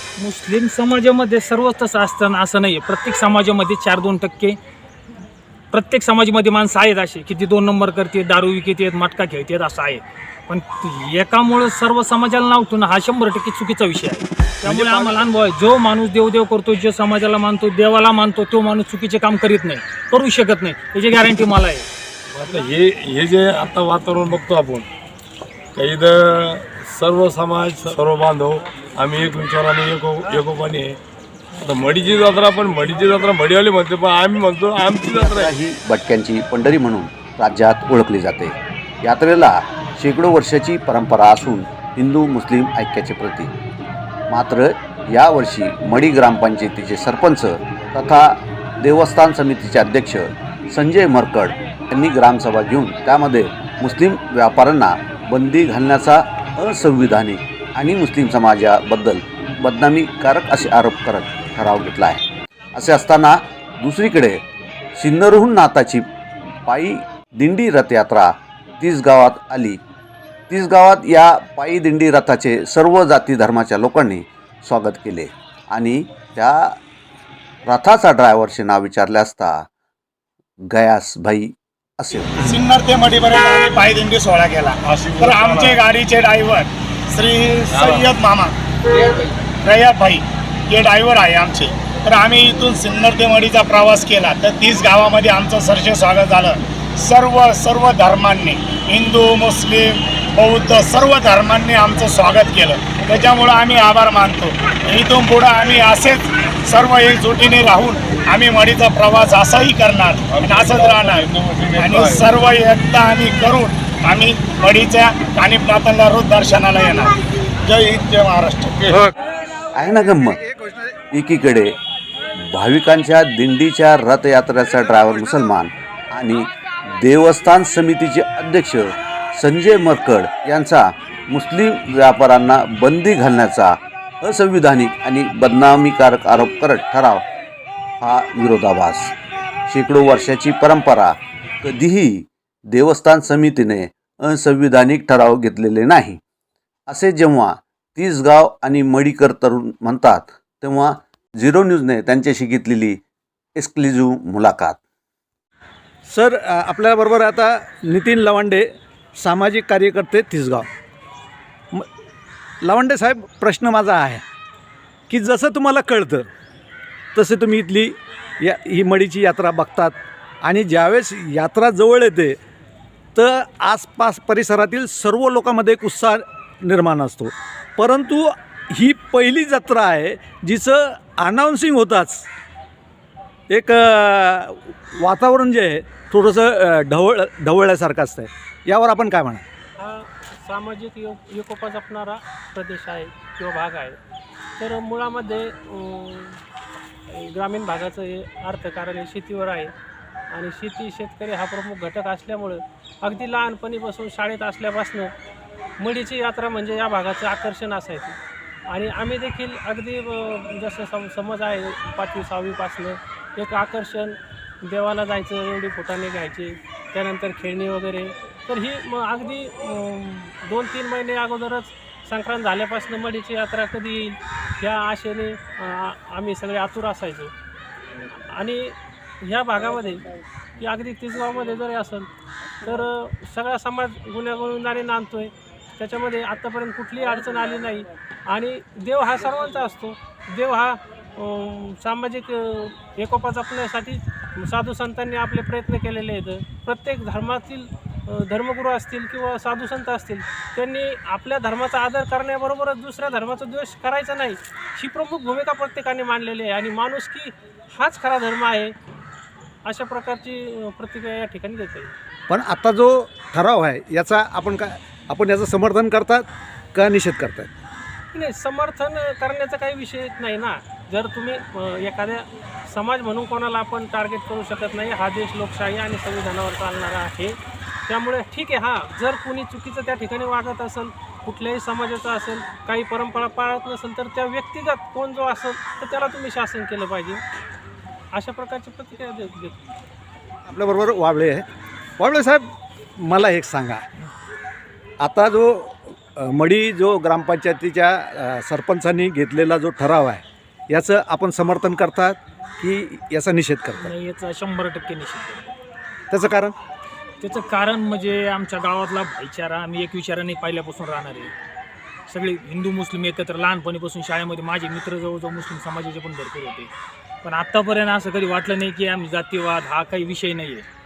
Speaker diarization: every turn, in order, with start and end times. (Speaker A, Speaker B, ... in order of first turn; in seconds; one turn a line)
Speaker A: 0.2-4.6
Speaker A: 5.7-21.9
Speaker B: 14.7-15.0
Speaker C: 14.8-15.1
Speaker B: 22.3-24.9
Speaker B: 25.8-30.9
Speaker B: 31.6-35.5
Speaker D: 35.0-43.5
Speaker D: 44.3-62.2
Speaker D: 62.7-64.4
Speaker D: 65.0-66.0
Speaker D: 66.7-69.8
Speaker D: 70.5-76.8
Speaker D: 77.7-79.7
Speaker D: 80.7-82.3
Speaker E: 82.3-88.5
Speaker B: 84.8-85.8
Speaker B: 87.7-88.1
Speaker E: 89.6-119.0
Speaker B: 110.3-112.3
Speaker D: 119.8-120.4
Speaker D: 121.1-121.7
Speaker D: 122.5-137.2
Speaker D: 138.0-139.1
Speaker D: 139.7-146.2
Speaker D: 146.9-153.0
Speaker D: 153.6-154.8
Speaker C: 156.1-160.7
Speaker C: 162.6-164.2
Speaker C: 165.1-166.3
Speaker C: 167.1-172.4
Speaker C: 173.1-182.3
Speaker C: 183.5-189.4
Speaker F: 189.8-194.0
Speaker F: 194.6-196.4
Speaker F: 197.1-199.7
Speaker F: 200.3-205.1
Speaker F: 205.8-208.2
Speaker F: 208.7-227.3
Speaker F: 228.3-230.0
Speaker F: 230.6-232.1
Speaker F: 232.6-258.7
Speaker F: 259.6-261.9
Speaker C: 262.3-267.5
Speaker F: 268.1-287.2
Speaker F: 288.1-289.7
Speaker C: 290.4-291.4
Speaker C: 292.0-293.9
Speaker C: 295.0-303.9
Speaker A: 303.8-305.5
Speaker C: 306.1-306.5
Speaker A: 307.2-311.3
Speaker A: 312.1-316.7
Speaker A: 317.2-320.6